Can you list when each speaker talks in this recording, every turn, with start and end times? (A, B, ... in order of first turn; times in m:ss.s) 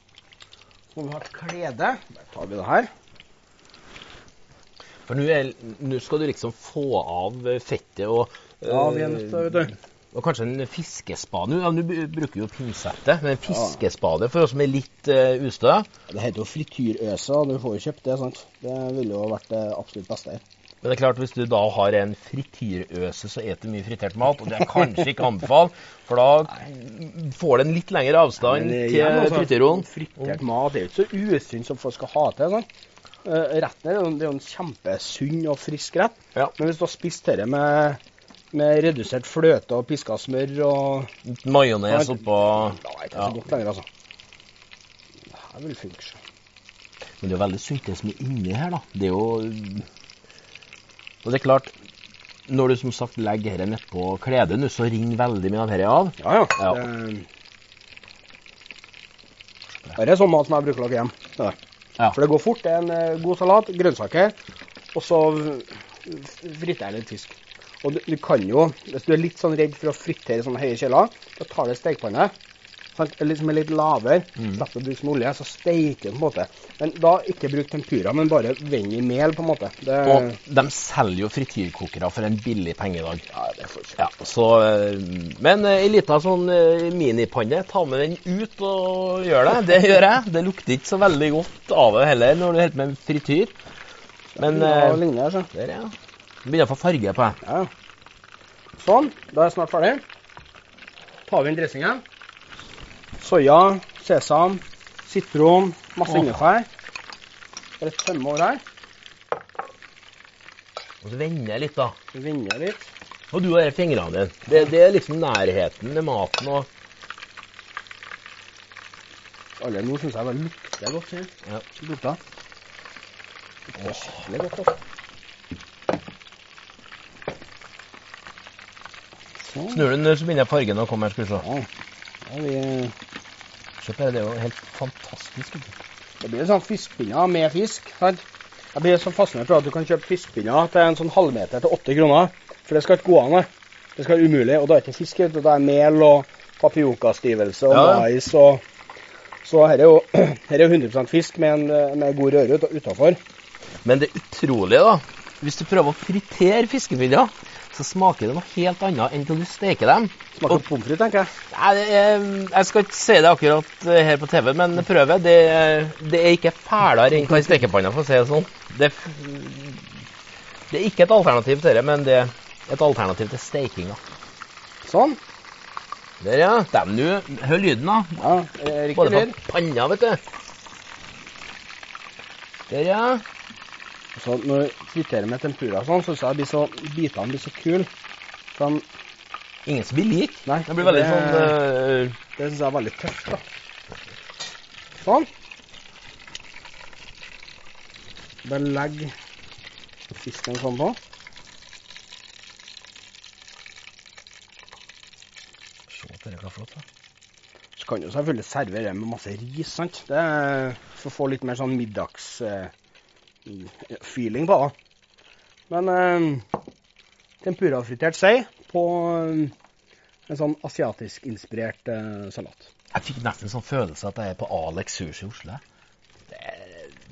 0:00.9-0:02.9 A
0:05.1-0:15.9 B
0:08.7-0:09.7 A
0:13.5-0:13.8 A
0:16.1-0:20.4 A
0:20.8-0:30.4 B
0:28.4-0:32.7 A
0:33.2-0:38.0 A
0:38.5-0:41.1 A
0:41.2-0:43.4 B
0:41.9-0:43.8 A
0:45.3-0:46.2 A
0:47.2-0:49.9 B
0:51.2-0:51.7 B
0:52.5-0:56.8 B
0:56.2-0:57.3 A
1:00.0-1:01.6 A
1:02.1-1:04.4 A
1:04.9-1:12.3 A
1:13.0-1:20.4 A
1:20.1-1:23.3 B
1:23.3-1:24.1 A
1:24.0-1:33.6 B
1:34.3-1:35.5 A
1:34.4-1:37.4 B
1:37.4-1:37.7 A
1:38.8-1:40.0 A
1:41.3-1:42.0 A
1:43.2-1:46.7 A
1:47.8-1:48.6 A
1:51.0-1:52.0 B
1:52.1-1:52.9 A
1:53.3-1:56.7 B
1:59.6-2:02.2 A
2:03.7-2:04.8 A
2:09.4-2:09.9 A
2:09.7-2:11.4 B
2:11.4-2:11.7 A
2:12.3-2:12.9 A
2:13.8-2:15.8 B
2:16.2-2:18.2 A
2:18.8-2:28.6 A
2:27.7-2:28.1 B
2:29.4-2:33.2 A
2:33.8-2:40.6 B
2:40.4-2:41.3 A
2:41.5-2:49.9 B
2:50.7-2:54.0 B
2:54.8-2:55.2 A
2:56.2-2:58.2 B
2:58.2-2:59.4 A
2:59.0-3:00.2 B
3:02.7-3:03.2 B
3:04.2-3:07.9 A
3:08.5-3:08.8 A
3:09.7-3:12.2 B
3:10.5-3:11.6 A
3:12.4-3:13.4 A
3:15.0-3:15.3 A
3:18.4-3:19.1 A
3:20.2-3:21.0 A
3:25.9-3:26.8 B
3:27.8-3:32.7 A
3:33.5-3:34.7 A
3:35.7-3:36.4 A
3:37.4-3:39.5 A
3:40.3-3:42.7 A
3:42.9-3:45.6 B